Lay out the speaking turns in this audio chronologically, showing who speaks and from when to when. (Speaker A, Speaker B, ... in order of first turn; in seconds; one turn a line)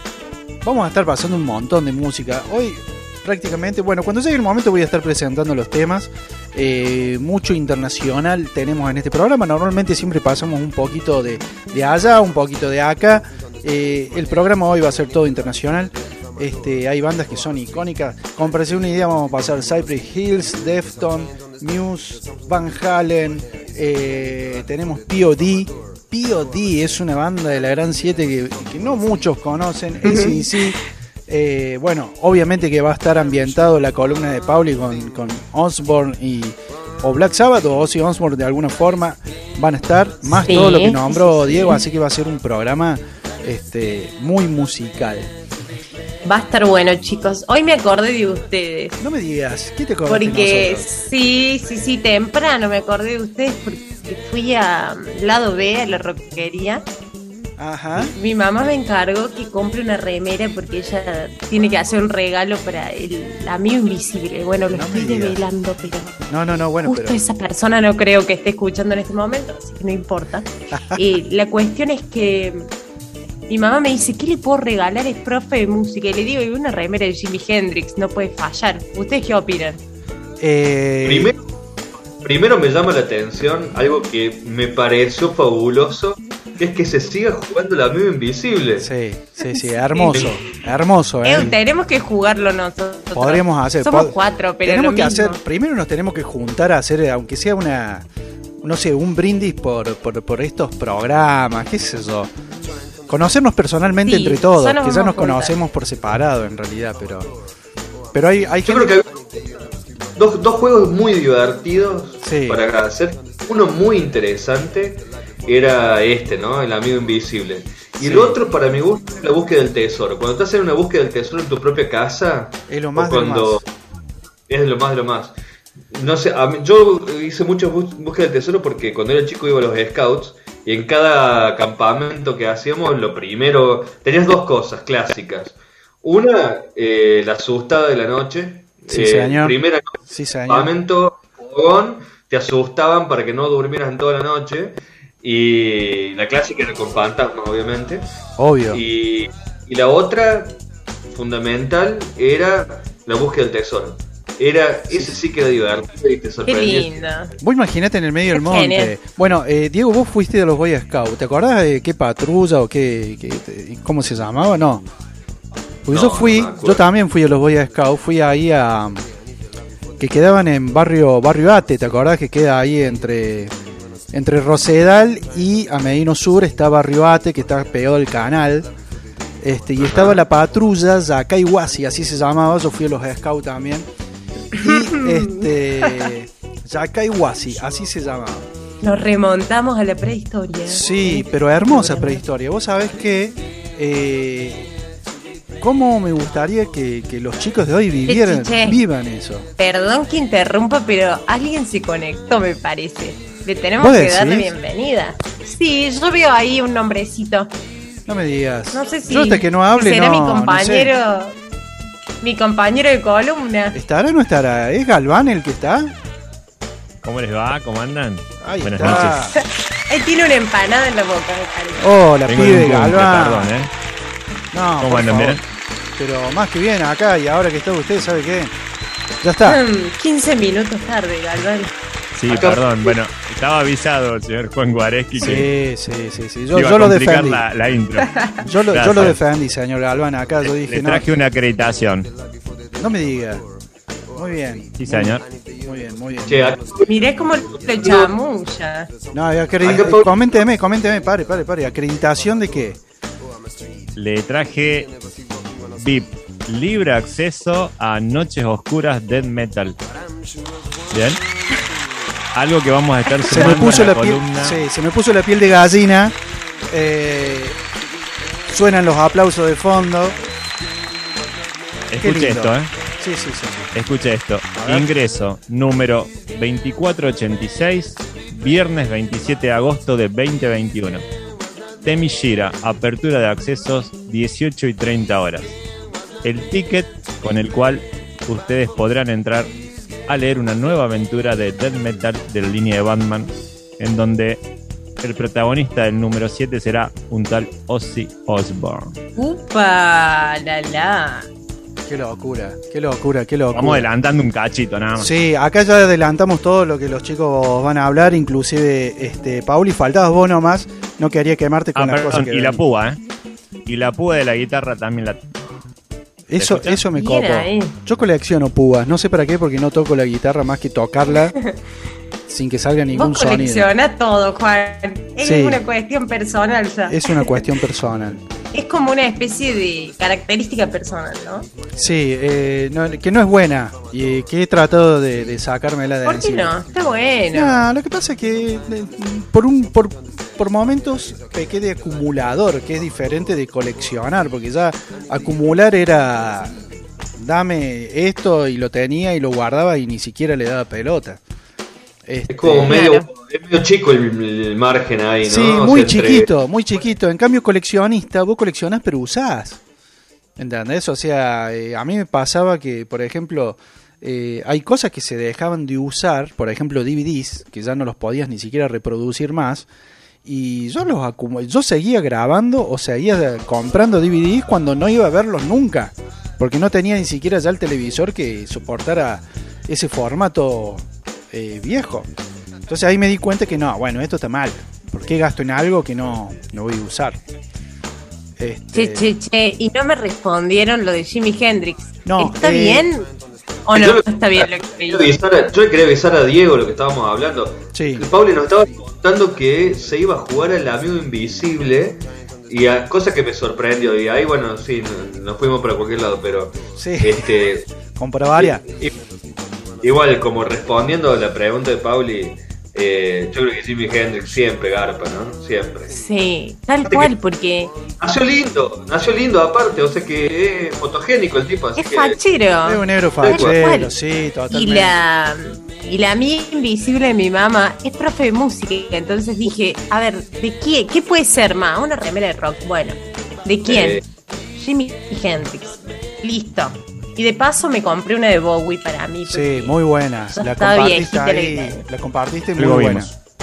Speaker A: 0.6-45.3
Speaker B: 30.0-30.6
Speaker B: 40.2-41.8
Speaker B: 46.2-49.0
Speaker A: 49.0-50.9
Speaker B: 50.1-56.8
Speaker A: 57.6-58.1
Speaker B: 58.0-66.2
Speaker A: 64.7-65.4
Speaker A: 66.3-67.2
Speaker B: 66.8-72.7
Speaker A: 70.7-71.0
Speaker B: 73.5-79.8
Speaker A: 80.4-81.3
Speaker C: 81.0-81.4
Speaker C: 82.2-88.9
Speaker A: 88.8-91.6
Speaker B: 89.5-90.3
Speaker B: 91.2-95.4
Speaker A: 93.1-98.1
Speaker A: 98.6-102.3
Speaker A: 103.1-107.3
Speaker B: 104.0-105.5
Speaker A: 108.1-108.9
Speaker C: 108.6-109.4
Speaker C: 110.2-123.6
Speaker A: 112.2-112.6
Speaker A: 118.0-118.4
Speaker A: 122.7-123.6
Speaker C: 124.5-125.4
Speaker C: 125.9-139.9
Speaker A: 138.9-139.6
Speaker A: 140.1-140.7
Speaker C: 140.5-148.1
Speaker A: 148.4-148.8
Speaker C: 148.7-150.6
Speaker C: 151.1-157.0
Speaker B: 156.4-157.3
Speaker A: 157.4-164.8
Speaker B: 158.3-158.9
Speaker A: 165.9-169.0
Speaker C: 165.9-166.8
Speaker A: 170.0-173.5
Speaker A: 174.1-178.7
Speaker A: 179.4-183.9
Speaker C: 179.8-180.2
Speaker B: 184.5-186.1
Speaker A: 184.6-188.5
Speaker B: 188.8-192.2
Speaker A: 190.7-194.7
Speaker A: 195.6-199.5
Speaker B: 198.1-198.8
Speaker B: 199.6-207.5
Speaker A: 203.8-204.5
Speaker A: 208.1-210.9
Speaker B: 208.7-211.4
Speaker B: 212.2-213.8
Speaker A: 213.7-215.9
Speaker D: 217.0-219.3
Speaker A: 218.4-219.4
Speaker B: 219.3-221.9
Speaker A: 221.8-223.6
Speaker D: 222.3-223.7
Speaker A: 224.5-225.4
Speaker D: 224.8-225.4
Speaker A: 225.9-228.5
Speaker A: 229.2-229.6
Speaker B: 229.4-231.7
Speaker D: 232.2-235.5
Speaker C: 232.3-232.9
Speaker A: 235.2-237.4
Speaker D: 236.5-239.2
Speaker A: 238.4-241.1
Speaker D: 240.7-242.1
Speaker A: 242.8-243.4
Speaker A: 244.2-246.6
Speaker D: 244.8-245.2
Speaker C: 246.2-246.9
Speaker B: 246.8-248.9
Speaker C: 247.7-248.1
Speaker A: 249.1-252.8
Speaker C: 249.6-250.2
Speaker D: 253.9-254.9
Speaker D: 255.8-259.8
Speaker D: 260.9-261.2
Speaker D: 262.3-264.6
Speaker A: 263.3-266.1
Speaker A: 266.7-267.6
Speaker A: 268.5-270.1
Speaker D: 271.9-272.7
Speaker A: 272.0-273.7
Speaker D: 273.7-281.0
Speaker A: 274.5-274.9
Speaker D: 281.8-285.6
Speaker D: 286.2-289.5
Speaker D: 290.1-294.4
Speaker D: 295.0-298.9
Speaker B: 299.1-301.3
Speaker A: 301.9-303.9
Speaker D: 303.5-305.1
Speaker A: 305.0-312.6
Speaker D: 311.8-313.0
Speaker D: 313.6-315.2
Speaker A: 316.3-321.3
Speaker D: 316.4-316.8
Speaker B: 316.9-317.7
Speaker A: 322.3-323.7
Speaker B: 322.9-327.4
Speaker A: 325.2-325.6
Speaker A: 326.9-328.2
Speaker B: 328.5-331.5
Speaker A: 331.8-336.6
Speaker B: 336.0-337.6
Speaker A: 337.3-346.5
Speaker A: 347.2-351.2
Speaker A: 352.1-352.7
Speaker C: 352.3-356.3
Speaker B: 352.7-353.1
Speaker A: 355.3-359.6
Speaker A: 360.4-369.7
Speaker A: 370.2-382.1
Speaker A: 382.7-387.2
Speaker A: 388.4-389.1
Speaker B: 388.7-393.1
Speaker A: 392.0-392.9
Speaker B: 393.6-395.1
Speaker C: 393.7-407.7
Speaker A: 397.7-398.1
Speaker A: 406.8-407.3
Speaker A: 407.9-408.6
Speaker C: 408.4-408.9
Speaker C: 409.8-415.9
Speaker B: 415.9-417.7
Speaker C: 418.0-422.2
Speaker B: 421.8-423.9
Speaker A: 422.6-424.9
Speaker C: 423.2-423.6
Speaker B: 424.5-434.0
Speaker C: 433.7-434.0
Speaker B: 434.6-439.8
Speaker A: 439.3-443.1
Speaker B: 440.3-441.8
Speaker D: 442.6-443.1